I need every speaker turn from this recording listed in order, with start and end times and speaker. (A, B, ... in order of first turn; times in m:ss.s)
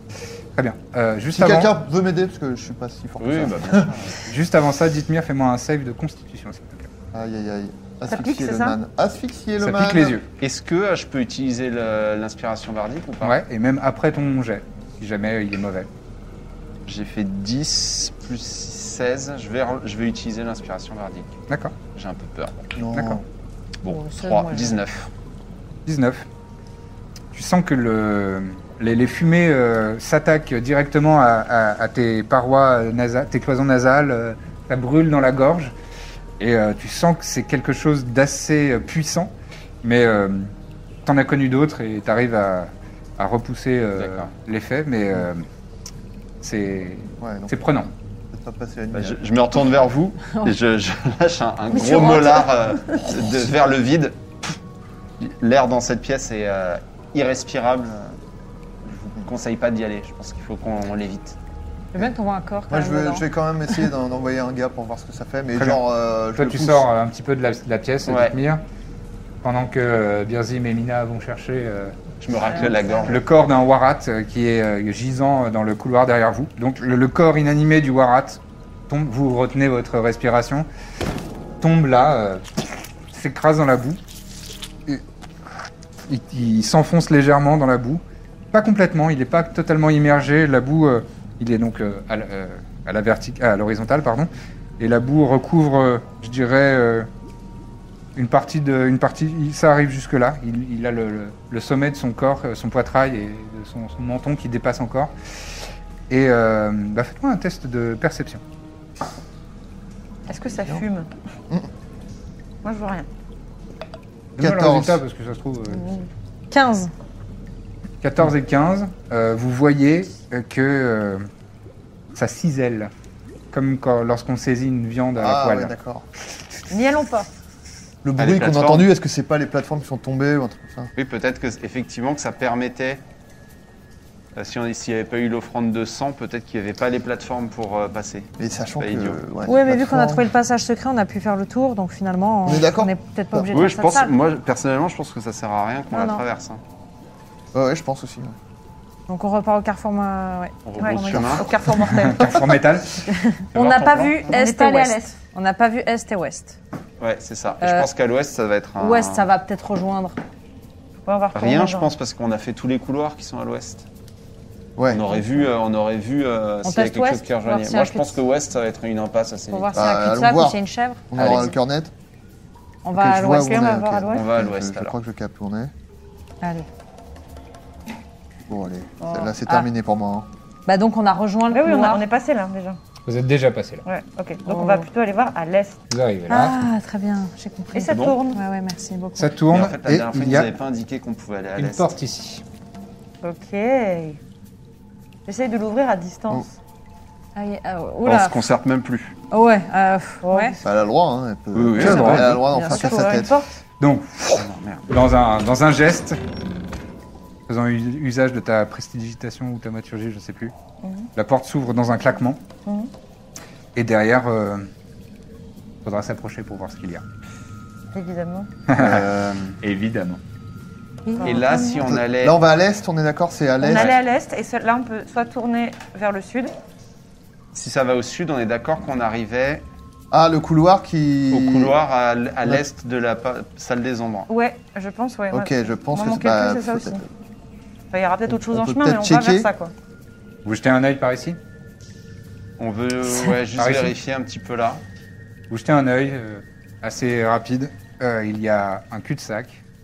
0:00.6-0:01.8 A
0:01.3-0:03.9 B
0:03.2-0:04.4 C
0:04.3-0:06.9 A
0:07.1-0:10.2 B
0:08.1-0:08.8 D
0:09.6-0:10.3 A
0:10.4-0:13.4 C
0:13.2-0:15.9 A
0:16.9-0:21.3 C
0:21.5-0:21.8 A
0:21.9-0:22.6 C
0:22.8-0:23.2 B
0:22.9-0:23.2 A
0:23.8-0:25.1 C
0:23.9-0:24.8 E
0:25.9-0:26.3 A
0:27.3-0:35.8 A
0:36.4-0:40.5 A
0:41.0-0:45.5 A
0:44.0-0:44.3 C
0:46.4-0:47.9 A
0:47.2-0:47.5 B
0:48.3-0:49.2 B
0:48.9-0:54.2 C
0:51.8-0:52.4 D
0:51.8-0:52.3 E
0:55.2-0:58.2 C
0:58.9-1:01.4 C
1:01.9-1:03.3 E
1:02.7-1:06.9 B
1:05.6-1:05.8 A
1:06.4-1:08.6 A
1:08.1-1:08.4 C
1:09.4-1:12.0 A
1:12.2-1:13.2 C
1:12.4-1:13.1 E
1:13.0-1:20.7 A
1:21.6-1:24.0 A
1:26.1-1:37.1 A
1:38.2-1:45.1 A
1:46.1-1:48.4 A
1:50.3-1:51.1 D
1:50.5-1:50.8 B
1:52.6-1:53.1 D
1:54.4-1:55.9 A
1:54.4-1:55.0 B
1:55.8-1:56.1 D
1:56.5-1:56.9 E
1:58.0-2:01.3 A
2:02.2-2:02.9 A
2:03.5-2:05.7 A
2:05.2-2:06.1 B
2:06.7-2:07.3 D
2:08.0-2:10.9 B
2:08.2-2:08.9 C
2:11.0-2:13.0 C
2:14.4-2:19.2 C
2:18.4-2:20.3 B
2:19.5-2:24.1 E
2:22.4-2:23.5 B
2:23.5-2:26.6 C
2:25.9-2:26.2 E
2:27.5-2:28.4 B
2:29.1-2:31.4 E
2:30.6-2:31.6 C
2:30.8-2:32.6 D
2:31.9-2:32.9 A
2:33.1-2:36.6 E
2:33.5-2:34.2 C
2:34.3-2:35.2 D
2:37.0-2:39.3 C
2:37.6-2:37.9 E
2:38.8-2:40.2 E
2:41.1-2:41.9 D
2:41.3-2:43.9 C
2:44.8-2:45.1 B
2:44.9-2:49.9 C
2:46.6-2:48.2 E
2:49.5-2:51.0 E
2:49.8-2:50.6 B
2:51.1-2:51.9 B
2:51.2-2:51.6 C
2:52.8-2:54.0 E
2:53.0-2:55.7 B
2:53.5-2:54.3 D
2:54.1-2:55.0 C
2:56.4-2:56.7 E
2:58.5-3:00.3 B
2:59.0-2:59.7 E
3:00.7-3:02.0 E
3:01.5-3:02.8 D
3:03.1-3:03.8 A
3:03.8-3:05.8 D
3:04.5-3:04.9 E
3:05.9-3:06.6 A
3:06.3-3:09.3 E
3:07.7-3:08.4 D
3:07.9-3:08.2 C
3:09.2-3:10.5 A
3:09.5-3:12.0 C
3:11.6-3:12.4 A
3:13.2-3:14.2 D
3:15.3-3:16.5 D
3:17.4-3:18.5 E
3:18.1-3:19.1 C
3:19.3-3:20.6 E
3:20.2-3:20.6 D
3:20.6-3:23.4 B
3:21.5-3:22.4 C
3:21.8-3:23.2 E
3:21.8-3:22.3 A
3:22.6-3:23.5 D
3:23.8-3:26.2 A
3:24.3-3:24.9 C
3:27.5-3:30.5 A
3:30.8-3:31.1 D
3:31.2-3:32.4 A
3:32.7-3:32.9 D
3:33.8-3:34.7 A
3:35.8-3:37.0 A
3:37.9-3:38.5 D
3:38.7-3:40.2 A
3:38.8-3:39.6 B
3:41.1-3:41.5 E
3:41.2-3:41.9 D
3:41.2-3:42.4 C
3:41.8-3:43.9 B
3:43.6-3:46.5 D
3:43.6-3:44.0 C
3:47.5-3:49.6 C
3:50.1-3:51.8 B
3:51.3-3:54.3 C
3:54.3-3:57.0 D
3:55.3-3:57.0 B
3:57.9-3:59.7 D
3:58.3-3:59.5 B
4:00.4-4:01.4 A
4:02.6-4:04.8 C
4:03.6-4:04.0 A
4:05.5-4:09.6 A